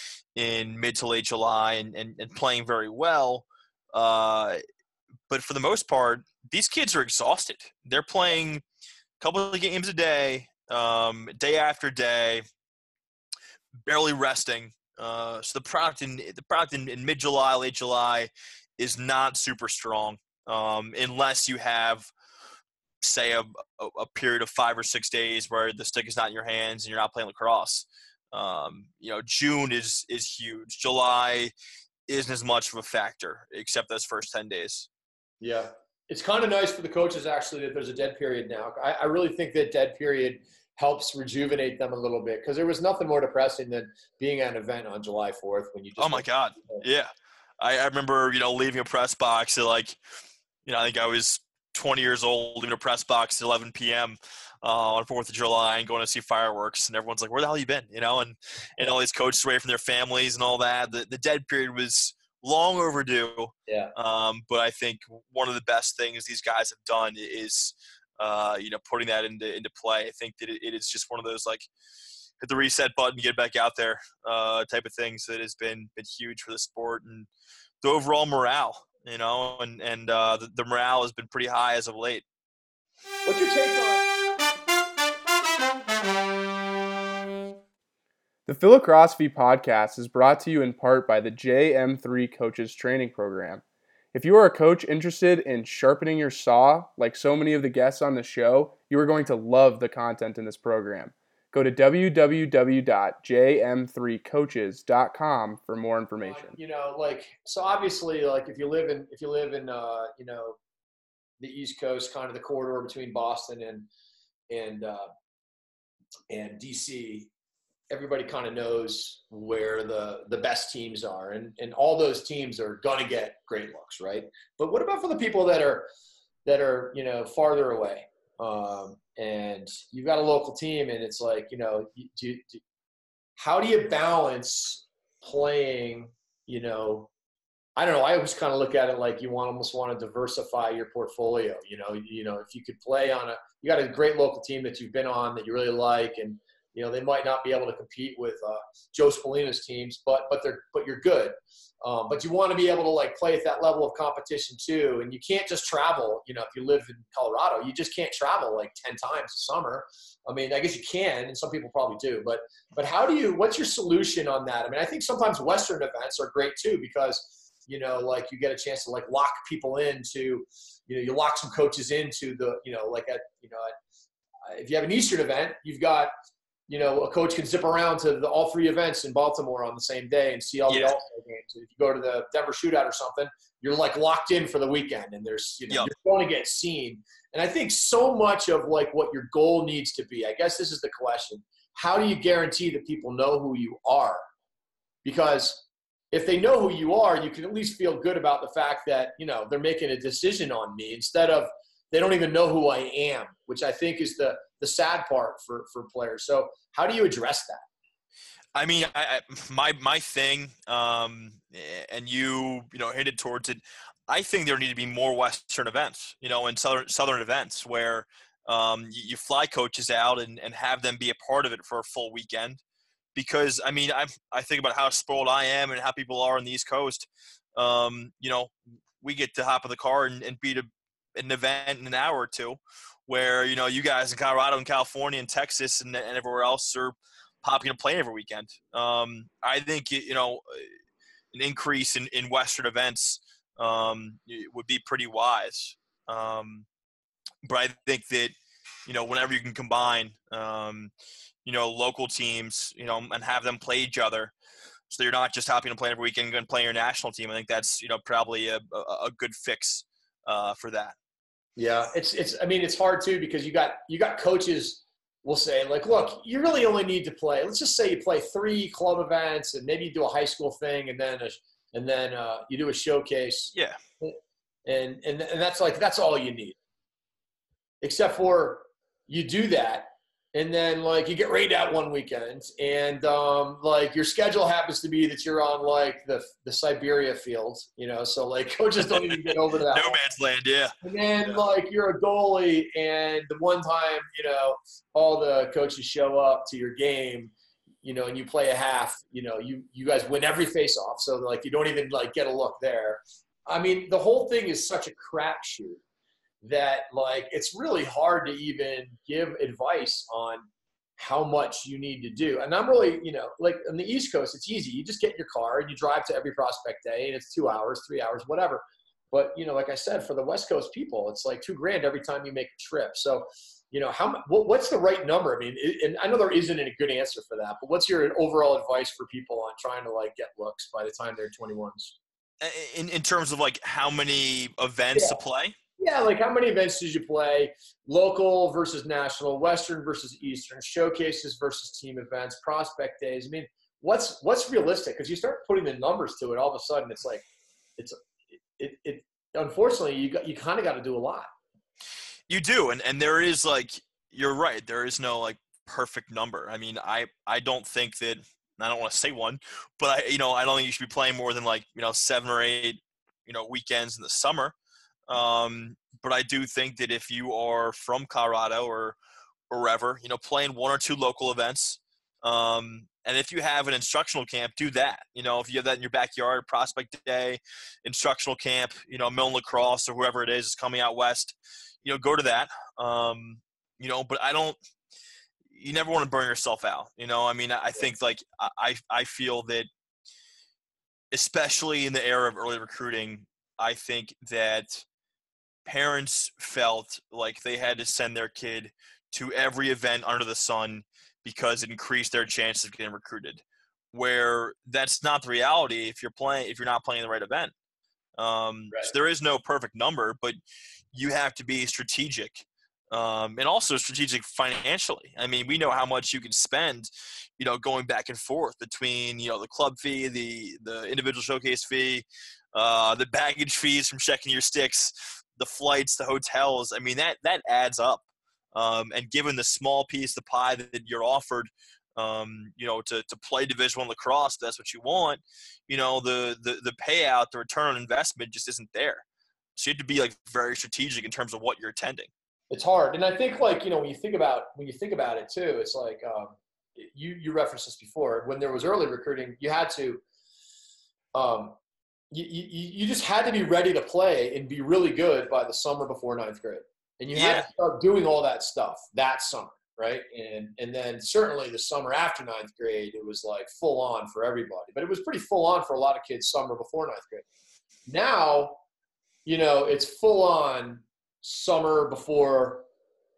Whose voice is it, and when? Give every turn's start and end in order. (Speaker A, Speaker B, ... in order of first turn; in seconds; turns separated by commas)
Speaker A: 0.4-4.6, Speaker A: 5.3-8.6, Speaker A: 9.2-12.4, Speaker A: 13.9-22.1, Speaker A: 23.0-31.5, Speaker A: 32.1-34.9, Speaker B: 35.4-46.9, Speaker A: 46.0-50.0, Speaker A: 50.7-71.7, Speaker B: 63.7-63.9, Speaker A: 72.4-77.3, Speaker A: 77.8-82.2, Speaker B: 83.2-84.1, Speaker C: 88.5-93.6, Speaker C: 94.1-106.6, Speaker B: 106.2-110.6, Speaker B: 111.4-113.9, Speaker B: 114.5-115.1, Speaker B: 116.3-117.3, Speaker B: 117.9-125.9, Speaker B: 126.5-132.6, Speaker B: 133.4-137.1, Speaker B: 137.8-173.8, Speaker B: 174.5-176.1, Speaker B: 176.7-194.2, Speaker A: 180.7-181.0, Speaker B: 195.0-207.6, Speaker A: 208.6-222.6, Speaker A: 223.2-240.7, Speaker A: 241.3-246.7, Speaker A: 247.4-248.3, Speaker A: 248.9-250.9, Speaker A: 251.4-254.3, Speaker A: 254.9-260.9, Speaker B: 261.6-276.6, Speaker B: 277.8-290.0, Speaker A: 288.9-291.4, Speaker B: 290.8-297.3, Speaker B: 297.8-305.8, Speaker B: 306.4-310.5, Speaker B: 311.0-332.0, Speaker A: 332.4-335.6, Speaker B: 335.8-347.2, Speaker B: 348.6-351.3, Speaker A: 352.3-364.6, Speaker A: 365.1-369.0, Speaker A: 369.5-384.6, Speaker A: 385.5-389.7, Speaker A: 391.1-394.9, Speaker A: 395.6-407.5, Speaker A: 408.2-410.4, Speaker A: 410.9-439.0, Speaker A: 439.6-442.1, Speaker B: 442.5-450.0, Speaker B: 451.1-451.6, Speaker B: 452.1-467.2, Speaker A: 457.1-457.5, Speaker B: 467.9-468.6, Speaker B: 469.3-472.7